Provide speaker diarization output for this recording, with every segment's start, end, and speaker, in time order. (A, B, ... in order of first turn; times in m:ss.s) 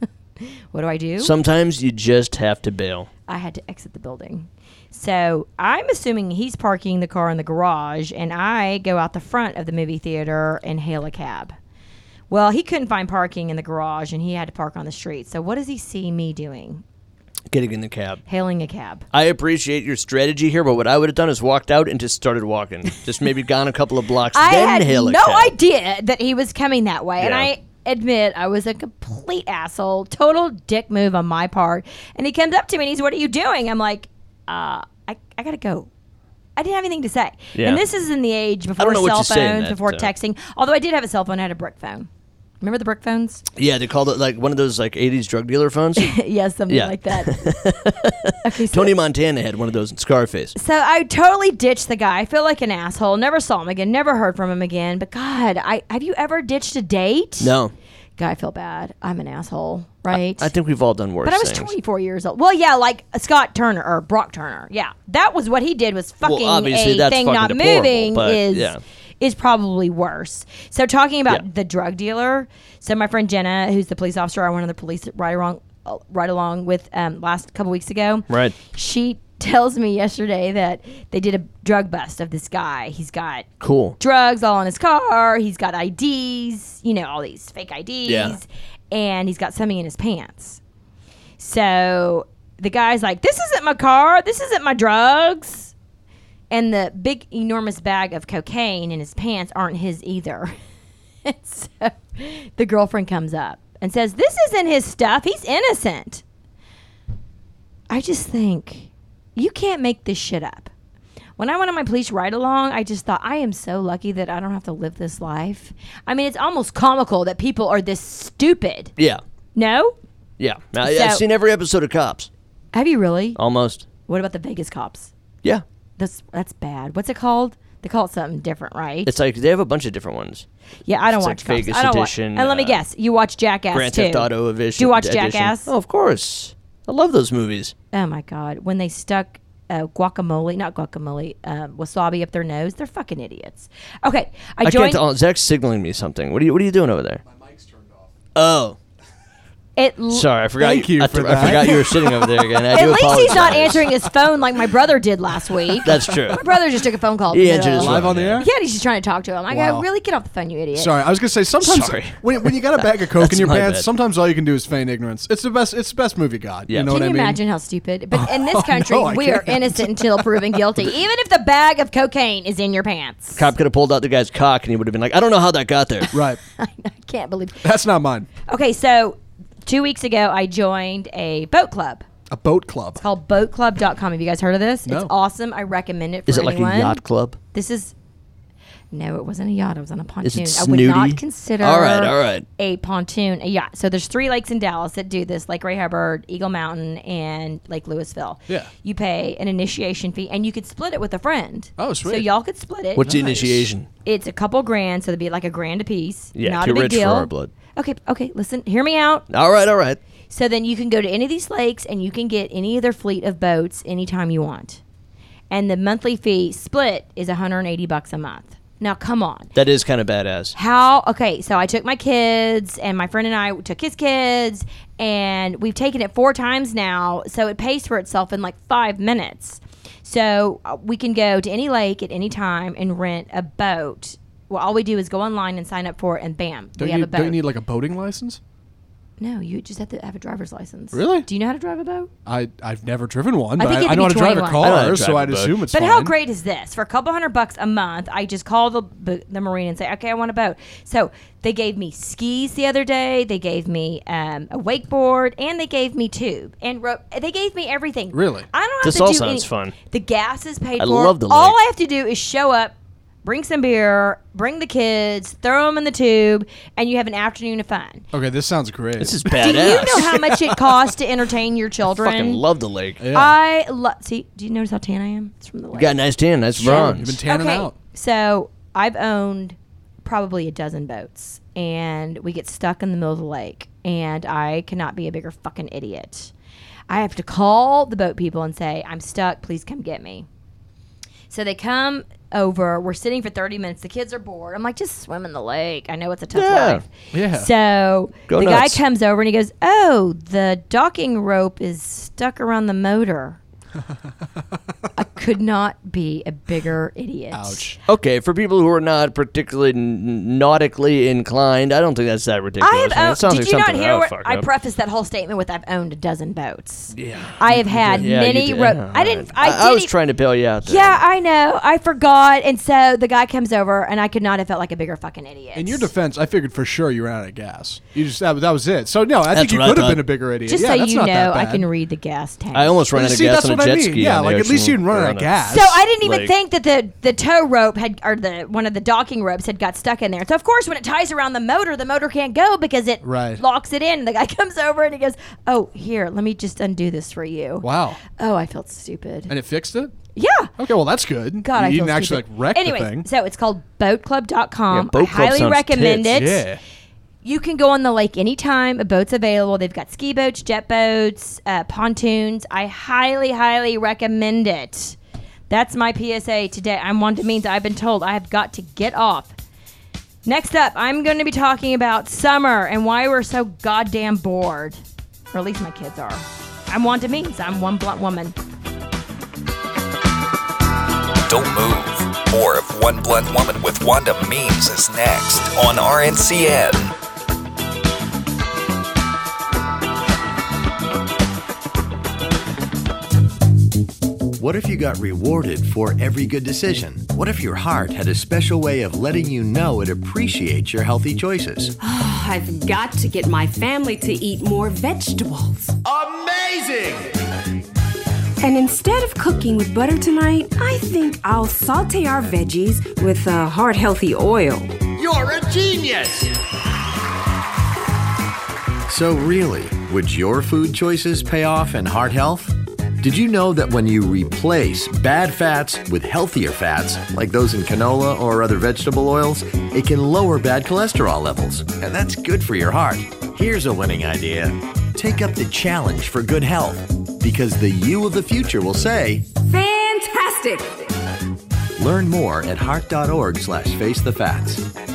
0:00.7-0:01.3 A
0:01.2-0:03.1 B
0:03.3-0:11.5 A
0:12.3-0:16.8 A
0:17.5-0:18.2 B
0:18.3-0:19.0 A
0:19.1-0:25.5 B
0:24.3-0:35.9 A
0:27.2-0:27.5 B
0:36.6-0:42.1 A
0:37.6-0:37.8 B
0:38.8-0:40.1 B
0:42.6-0:43.4 A
0:43.6-0:46.1 B
0:46.0-0:47.8 A
0:46.7-0:50.5 B
0:48.4-0:48.9 A
0:50.5-0:57.6 A
0:57.4-0:57.7 B
0:58.2-1:00.5 A
1:00.1-1:01.7 B
1:01.2-1:23.5 A
1:06.2-1:08.8 B
1:18.3-1:18.5 B
1:23.6-1:24.0 B
1:24.0-1:30.6 A
1:28.0-1:28.4 B
1:31.4-1:35.7 A
1:36.5-1:40.5 A
1:41.2-1:46.2 A
1:47.9-1:50.7 A
1:51.4-1:58.9 A
1:59.5-2:00.0 A
2:00.4-2:02.3 B
2:00.8-2:01.2 A
2:02.7-2:03.4 A
2:03.4-2:03.8 B
2:04.1-2:05.1 A
2:06.0-2:09.1 A
2:09.0-2:10.4 B
2:10.9-2:15.7 A
2:11.1-2:12.8 B
2:13.7-2:17.7 B
2:17.9-2:25.0 A
2:24.6-2:27.2 B
2:27.2-2:28.1 C
2:28.3-2:28.8 B
2:29.8-2:30.3 A
2:30.1-2:33.9 B
2:30.6-2:32.4 C
2:32.7-2:40.9 A
2:35.8-2:36.4 B
2:37.3-2:38.4 B
2:37.8-2:38.5 C
2:39.5-2:39.8 C
2:40.7-2:47.4 C
2:41.6-2:43.9 B
2:46.9-2:53.5 A
2:48.1-2:50.9 C
2:53.4-2:56.1 B
2:56.1-2:56.4 C
2:56.6-2:57.6 A
2:57.6-2:58.3 C
2:58.5-3:02.0 A
3:02.3-3:03.0 C
3:03.0-3:07.0 A
3:04.8-3:05.1 C
3:06.3-3:07.4 B
3:07.5-3:07.9 A
3:08.9-3:23.3 A
3:10.2-3:12.4 B
3:21.8-3:22.3 C
3:23.0-3:23.6 C
3:23.0-3:23.9 B
3:24.0-3:29.2 A
3:26.4-3:27.5 B
3:29.3-3:30.0 B
3:30.3-3:34.8 A
3:35.5-3:39.5 A
3:39.5-3:40.5 B
3:40.5-3:57.4 A
3:56.8-3:58.4 C
3:59.2-4:02.1 A
4:00.9-4:01.3 C
4:02.2-4:06.1 C
4:03.6-4:04.8 A
4:04.6-4:05.6 B
4:05.7-4:28.0 A
4:18.1-4:18.5 C
4:18.8-4:19.7 B
4:20.8-4:21.6 B
4:28.1-4:30.6 C
4:29.0-4:30.1 B
4:29.3-4:32.4 A
4:31.9-4:33.0 B
4:33.0-4:33.4 C
4:33.1-4:36.0 A
4:35.7-4:37.2 B
4:36.6-4:37.8 C
4:36.6-4:46.3 A
4:46.9-4:50.3 A
4:51.3-5:03.4 A
4:56.3-4:56.8 B
4:57.1-4:57.5 C
4:58.3-4:58.8 B
5:05.0-5:07.7 A
5:07.3-5:07.8 C
5:07.9-5:14.5 B
5:12.6-5:19.9 A
5:16.9-5:17.4 B
5:17.4-5:18.1 C
5:18.0-5:21.0 B
5:20.6-5:25.9 A
5:25.5-5:31.7 C
5:29.3-5:30.0 B
5:30.5-5:32.8 A
5:32.5-5:35.3 B
5:32.9-5:35.8 C
5:35.4-5:49.3 A
5:36.0-5:36.3 B
5:43.0-5:43.4 C
5:47.6-5:48.0 C
5:49.3-5:49.9 C
5:50.1-5:50.5 A
5:50.6-5:53.1 C
5:51.4-5:56.4 A
5:54.7-5:56.2 B
5:56.1-5:56.6 C
5:57.2-6:05.0 A
6:05.5-6:09.3 A
6:10.2-6:14.8 A
6:15.3-6:18.3 A
6:21.3-6:26.9 D
6:34.4-6:41.7 E
6:41.8-6:45.8 F
6:45.9-6:47.1 E
6:48.4-6:54.8 F
6:55.0-6:56.3 E
6:58.9-7:19.3 E
7:19.4-7:20.9 F
7:21.8-7:24.6 E